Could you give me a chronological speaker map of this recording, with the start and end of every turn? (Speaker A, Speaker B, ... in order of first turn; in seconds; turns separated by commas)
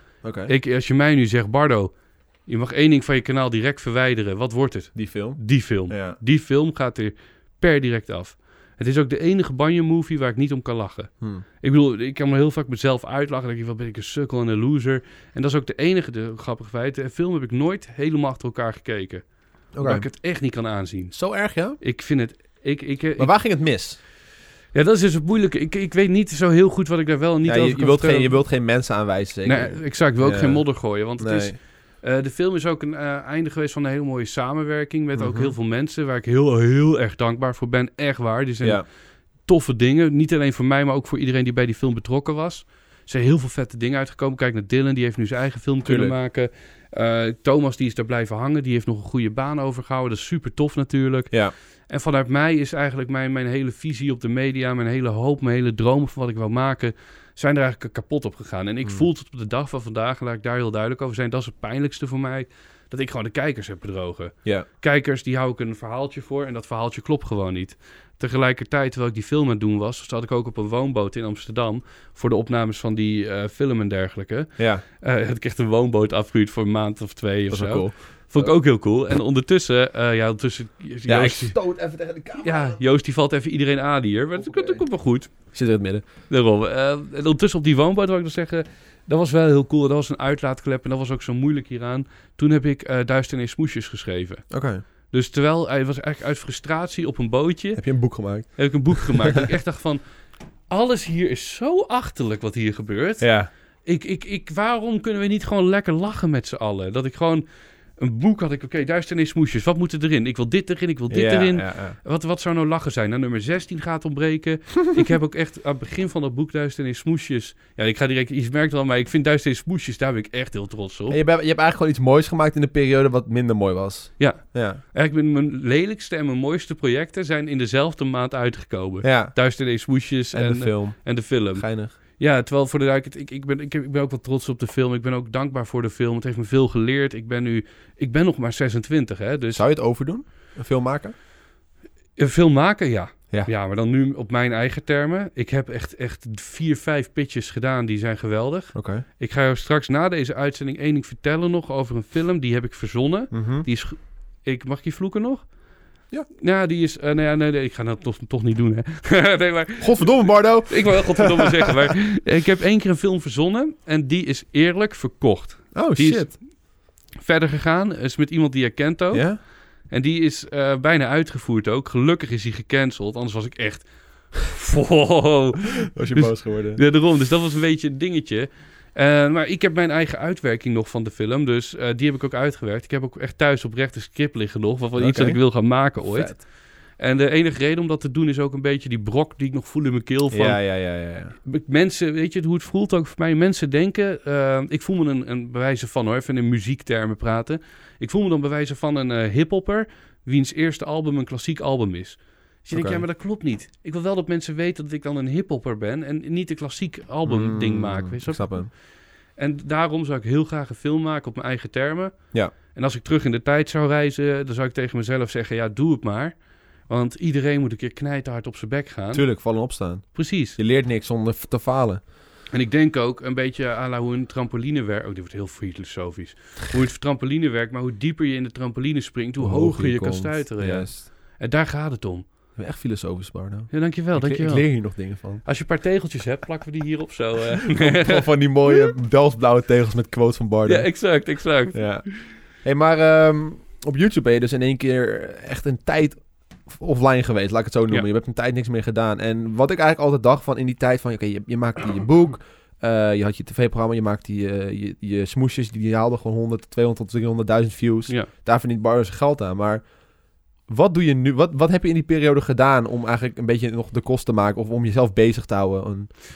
Speaker A: 0.2-0.5, Speaker B: 0.5-1.9, Speaker B: 2.5-23.3, Speaker A: 4.9-6.2, Speaker A: 19.7-20.1, Speaker A: 21.1-21.8, Speaker A: 23.2-24.0, Speaker B: 24.7-28.4, Speaker A: 27.4-31.6, Speaker B: 29.4-81.6, Speaker A: 35.1-35.5, Speaker A: 38.6-38.9, Speaker A: 45.8-46.1, Speaker A: 51.3-51.5, Speaker A: 74.6-74.8, Speaker A: 77.5-78.5, Speaker A: 81.0-82.8, Speaker B: 82.4-85.5, Speaker A: 84.4-86.1, Speaker B: 86.3-100.0, Speaker A: 94.5-94.8, Speaker A: 97.8-99.4, Speaker B: 100.7-121.2, Speaker A: 103.2-103.5, Speaker A: 111.1-112.0, Speaker A: 121.1-124.8, Speaker B: 124.2-139.6, Speaker A: 129.0-129.4, Speaker A: 130.3-131.9, Speaker A: 139.5-141.1, Speaker B: 142.2-155.6, Speaker A: 148.7-149.0, Speaker A: 153.3-153.7, Speaker B: 156.3-190.8, Speaker A: 159.8-161.7, Speaker A: 165.7-166.4, Speaker A: 169.1-169.4, Speaker A: 175.9-176.8, Speaker A: 185.0-186.4, Speaker A: 190.3-191.3, Speaker B: 191.4-208.8, Speaker A: 202.7-203.0, Speaker A: 207.2-208.7, Speaker B: 209.3-219.4, Speaker A: 219.1-222.0, Speaker B: 220.1-220.6, Speaker B: 222.5-232.2, Speaker A: 229.4-231.1, Speaker A: 232.6-235.4, Speaker B: 233.7-238.3, Speaker A: 237.8-241.2, Speaker B: 240.6-242.1, Speaker A: 241.7-259.9, Speaker A: 260.6-266.1